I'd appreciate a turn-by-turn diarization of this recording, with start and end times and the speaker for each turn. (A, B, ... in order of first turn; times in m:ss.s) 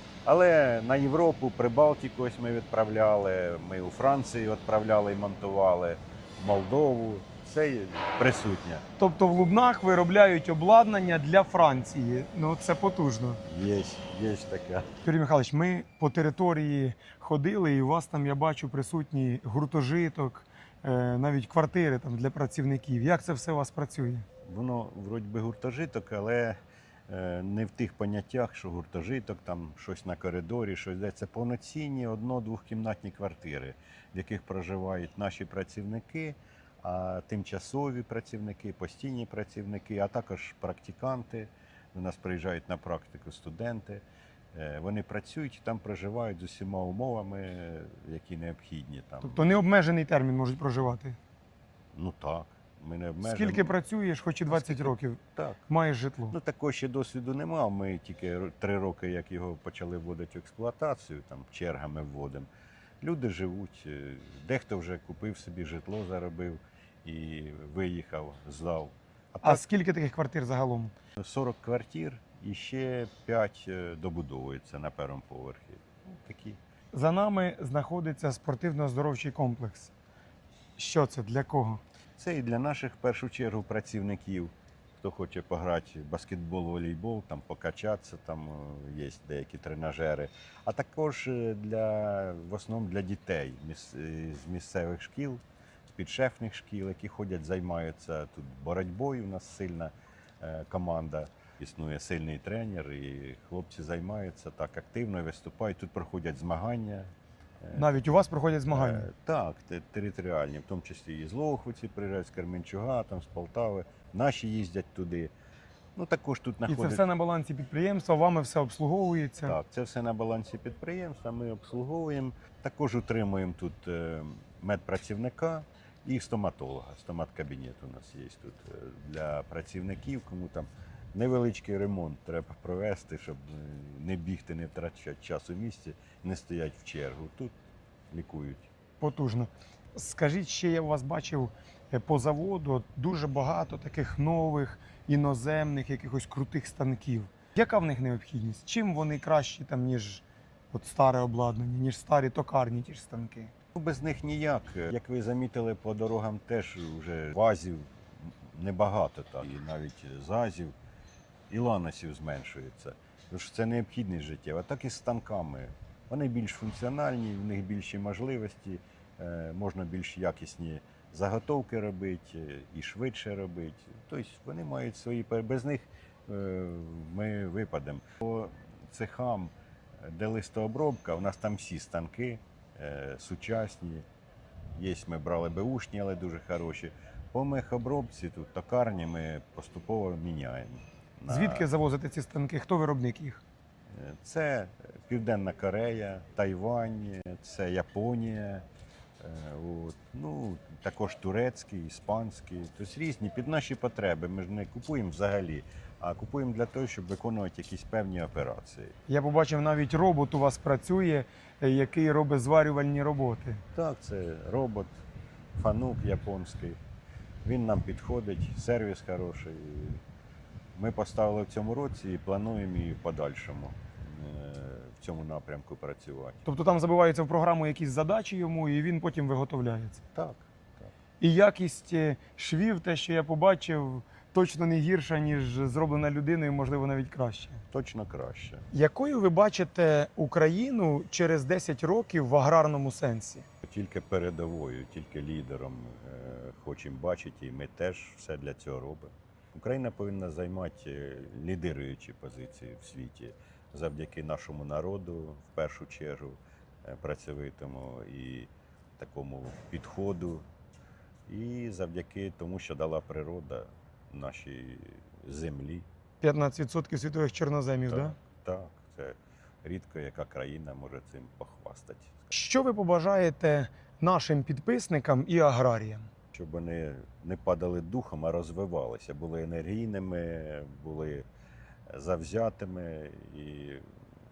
0:00.2-0:08.8 A
0:09.0-0:13.4 B
0:13.4-0:14.9 A
0:15.0-0:24.3 B
0:24.4-0:26.6 A
0:27.1-0:49.5 A
0:49.2-0:51.2 B
0:51.9-0:53.7 A
0:53.2-0:56.4 B
0:54.5-0:55.6 A
0:56.3-1:02.5 A
1:03.0-1:09.6 A
1:09.4-1:10.9 B
1:11.2-1:16.6 A
1:16.9-1:19.9 B
1:20.8-1:21.8 B
1:22.2-1:35.4 A
1:36.0-1:47.1 A
1:47.6-1:47.9 A
1:47.7-1:49.1 B
1:48.7-1:55.3 A
1:56.0-1:57.0 A
1:56.7-1:59.6 B
1:59.4-2:17.5 A
2:18.1-2:18.7 A
2:19.0-2:33.5 B
2:33.8-2:40.7 A
2:41.5-3:04.0 A
3:04.8-3:11.7 A
3:11.3-3:13.4 B
3:13.9-3:18.6 A
3:19.2-3:29.0 A
3:29.1-3:33.6 B
3:33.7-3:35.0 A
3:35.6-3:36.8 A
3:37.4-3:40.0 A
3:40.8-3:46.4 A
3:46.4-3:50.0 B
3:50.2-3:50.9 A
3:51.2-3:57.6 B
3:57.7-3:58.7 A
3:58.7-4:03.5 B
4:03.6-4:20.4 A
4:21.3-4:25.9 A
4:26.2-4:28.2 B
4:27.9-4:32.3 A
4:32.3-4:36.1 B
4:36.3-4:41.3 A
4:41.9-4:43.9 A